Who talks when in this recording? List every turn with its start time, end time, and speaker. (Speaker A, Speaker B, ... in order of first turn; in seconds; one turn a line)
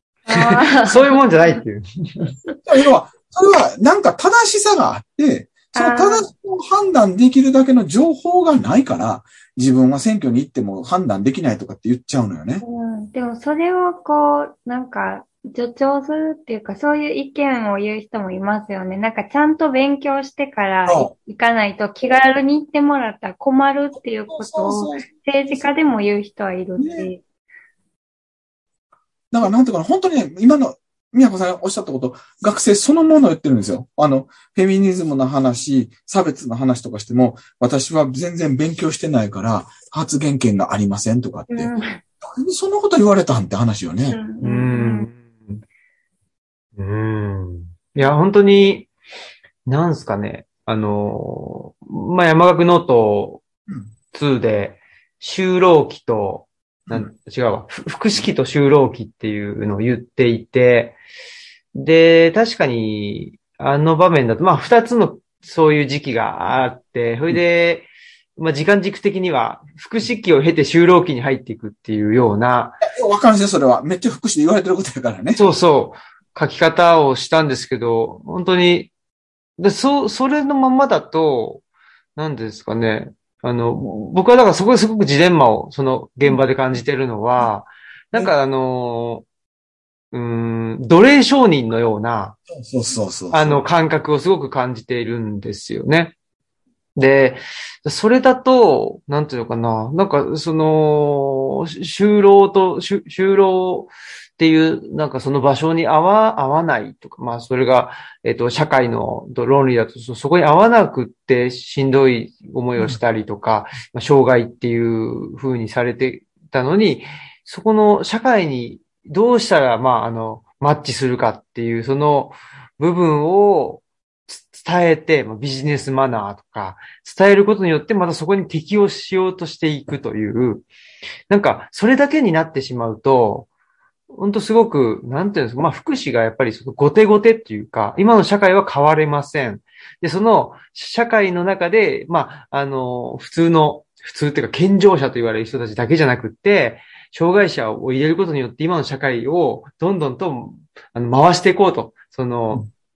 Speaker A: 0.2-1.6
Speaker B: 0.3-2.3
Speaker C: 2.6-12.6
Speaker A: 5.7-6.3
Speaker A: 12.6-27.2
Speaker C: 20.9-21.1
Speaker C: 24.3-25.7
Speaker C: 26.8-27.1
Speaker C: 29.3-44.2
Speaker A: 41.5-42.0
Speaker A: 44.1-45.1
Speaker B: 44.4-45.6
Speaker B: 46.8-48.9
Speaker B: 49.6-53.4
Speaker B: 54.1-61.0
Speaker B: 61.7-72.8
Speaker C: 72.8-75.5
Speaker B: 75.3-78.9
Speaker B: 79.6-81.6
Speaker B: 82.2-89.2
Speaker B: 90.1-92.4
Speaker C: 92.5-93.6
Speaker B: 93.3-96.1
Speaker B: 97.0-130.7
Speaker B: 131.3-133.5
Speaker B: 134.1-152.7